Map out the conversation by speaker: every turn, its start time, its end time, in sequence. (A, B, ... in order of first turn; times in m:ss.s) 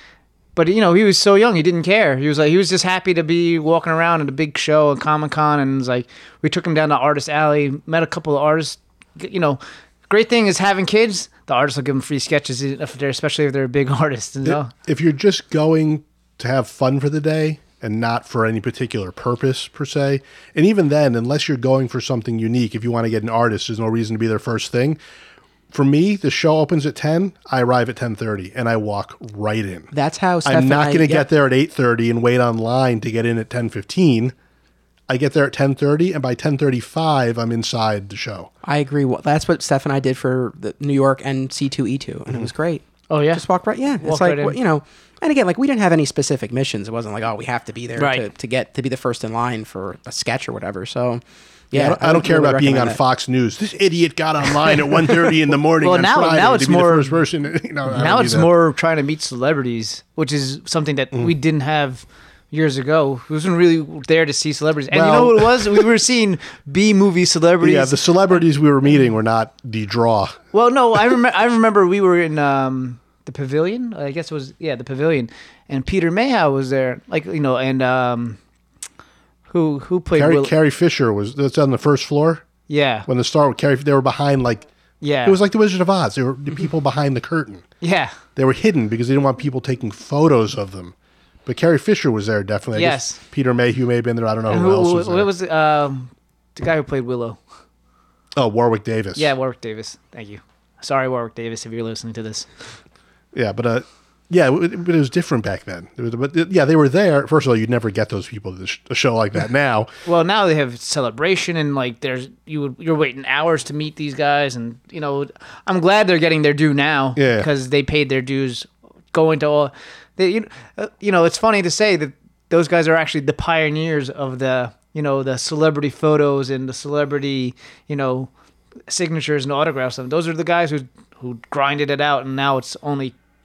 0:00.6-0:14.7 A
0:14.4-0:25.0 B
0:25.7-0:29.9 B
0:29.9-0:31.2 C
0:30.4-0:34.3 B
0:35.1-0:38.5 B
0:38.6-0:53.0 C
0:43.1-0:43.4 A
0:44.0-0:44.6 A
0:48.0-0:48.3 A
0:51.7-0:58.5 B
0:55.8-0:57.1 A
0:57.9-1:08.4 A
1:04.9-1:05.8 B
1:07.6-1:10.4 B
1:10.5-1:18.4 A
1:19.5-1:20.5 A
1:20.2-1:22.5 B
1:22.7-1:23.1 A
1:23.1-1:24.7 B
1:25.0-1:25.4 A
1:25.2-1:27.6 B
1:27.8-1:28.2 A
1:28.4-1:30.9 B
1:31.4-1:35.3 B
1:32.7-1:33.2 A
1:34.5-1:37.4 A
1:38.4-1:39.3 B
1:39.2-1:42.5 A
1:43.3-1:49.9 B
1:50.0-2:08.3 A
1:57.2-1:57.5 B
2:08.9-2:13.1 A